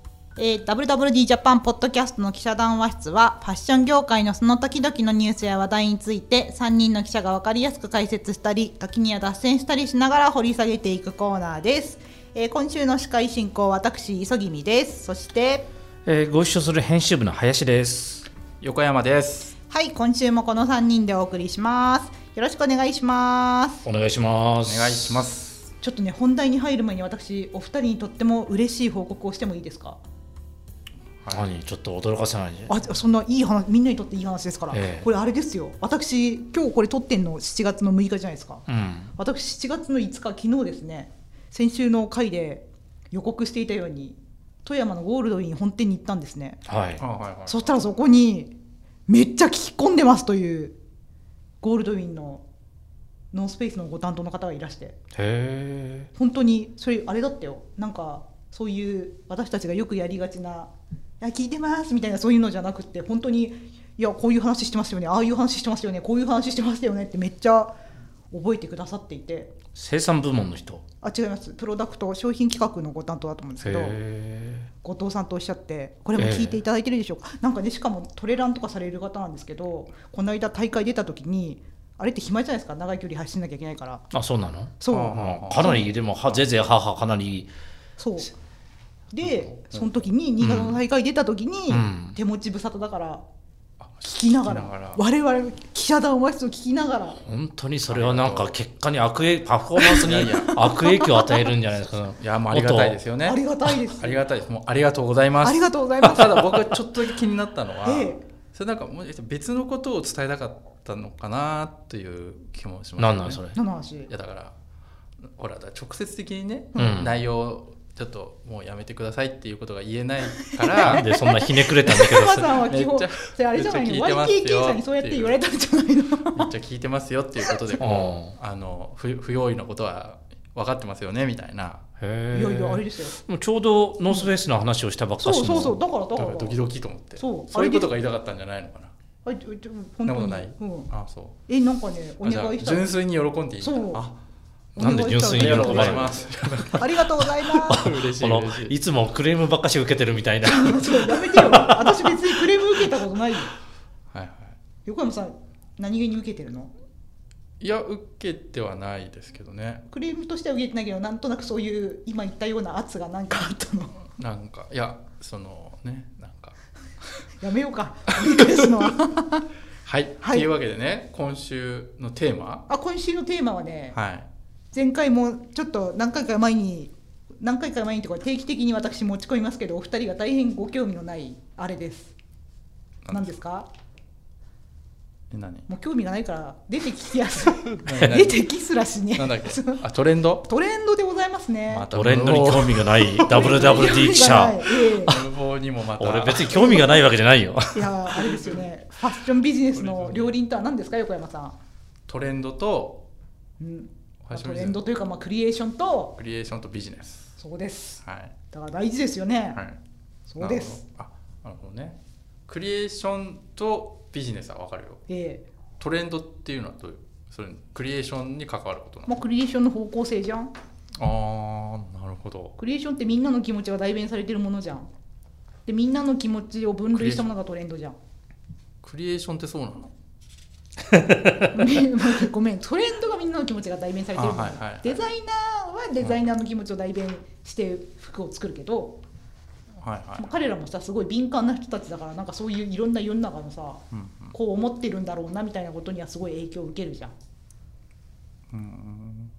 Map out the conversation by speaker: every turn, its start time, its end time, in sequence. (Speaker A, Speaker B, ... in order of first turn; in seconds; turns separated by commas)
Speaker A: 0.4-15.6, Speaker B: 16.1-18.3, Speaker C: 18.6-19.6, Speaker A: 19.7-23.9, Speaker B: 23.9-25.2, Speaker C: 24.6-25.7, Speaker A: 25.8-30.0, Speaker C: 31.2-31.5, Speaker B: 31.3-32.7, Speaker A: 32.7-38.6, Speaker B: 34.7-35.1, Speaker B: 38.7-39.1, Speaker A: 39.2-46.6, Speaker B: 46.7-47.0, Speaker C: 47.0-47.9, Speaker A: 47.5-48.5, Speaker A: 49.1-50.8, Speaker A: 51.6-52.4, Speaker A: 53.3-55.0, Speaker B: 55.1-56.1, Speaker A: 56.1-67.8, Speaker A: 68.3-69.5, Speaker B: 69.7-70.8, Speaker A: 71.0-74.0, Speaker B: 73.6-74.7, Speaker A: 74.8-84.1, Speaker B: 76.2-76.6, Speaker B: 84.1-87.5, Speaker A: 84.8-85.9, Speaker C: 84.9-86.4, Speaker A: 88.0-88.3, Speaker A: 89.1-93.2, Speaker C: 89.2-90.0, Speaker B: 90.4-90.8, Speaker B: 91.7-92.2, Speaker C: 93.8-95.0, Speaker A: 94.0-97.2, Speaker B: 97.3-103.0, Speaker C: 97.9-98.5, Speaker C: 99.8-100.7, Speaker A: 100.5-101.5, Speaker C: 102.2-113.4, Speaker A: 103.2-104.2, Speaker A: 105.4-106.5, Speaker A: 107.8-108.2, Speaker B: 113.0-113.6, Speaker A: 113.5-114.1, Speaker C: 114.1-114.5, Speaker C: 115.2-121.1, Speaker B: 116.8-117.2, Speaker A: 120.4-126.5, Speaker B: 120.8-122.6, Speaker C: 121.9-125.4, Speaker C: 126.3-131.8, Speaker B: 127.8-128.3, Speaker B: 132.0-135.8, Speaker A: 132.3-133.2, Speaker A: 135.2-136.6, Speaker C: 136.2-138.9, Speaker A: 137.2-137.9, Speaker A: 139.2-140.9, Speaker C: 140.1-141.4, Speaker A: 141.5-143.0, Speaker C: 142.2-144.1, Speaker A: 143.6-144.1, Speaker A: 144.8-147.9, Speaker C: 144.8-148.7, Speaker B: 144.8-146.7, Speaker B: 147.7-152.2, Speaker A: 150.4-153.5, Speaker C: 154.1-154.6, Speaker A: 154.8-156.7, Speaker C: 157.6-159.8, Speaker A: 159.9-164.0, Speaker C: 164.1-166.6, Speaker A: 167.4-169.5, Speaker C: 168.1-168.7, Speaker C: 169.8-172.7, Speaker A: 170.2-170.5, Speaker A: 172.7-174.0, Speaker C: 173.9-174.3, Speaker A: 174.7-182.1, Speaker C: 183.1-183.3, Speaker A: 183.1-183.7, Speaker C: 185.3-185.7, Speaker A: 185.7-189.8, Speaker C: 187.8-188.5, Speaker C: 189.1-190.4, Speaker A: 190.4-191.9, Speaker C: 191.7-194.0, Speaker B: 191.9-194.7, Speaker A: 193.2-195.2, Speaker C: 194.8-196.8, Speaker B: 196.0-197.9, Speaker A: 196.5-197.0, Speaker A: 197.7-201.6, Speaker C: 198.1-198.7, Speaker C: 199.7-200.3, Speaker C: 202.1-203.0, Speaker A: 203.6-206.2, Speaker C: 204.2-204.8, Speaker C: 206.2-207.4, Speaker A: 207.4-209.6, Speaker C: 208.0-208.3, Speaker A: 210.3-210.8, Speaker C: 210.4-215.0, Speaker A: 215.1-215.4, Speaker C: 215.8-219.1, Speaker A: 219.1-220.5, Speaker C: 221.0-222.6, Speaker A: 222.6-224.9, Speaker A: 225.7-228.0, Speaker C: 226.9-227.3, Speaker C: 228.8-229.9, Speaker B: 230.9-231.5, Speaker A: 231.5-239.0, Speaker C: 234.1-235.0, Speaker C: 239.8-240.3, Speaker A: 240.2-247.1, Speaker C: 243.9-244.3, Speaker C: 248.5-249.3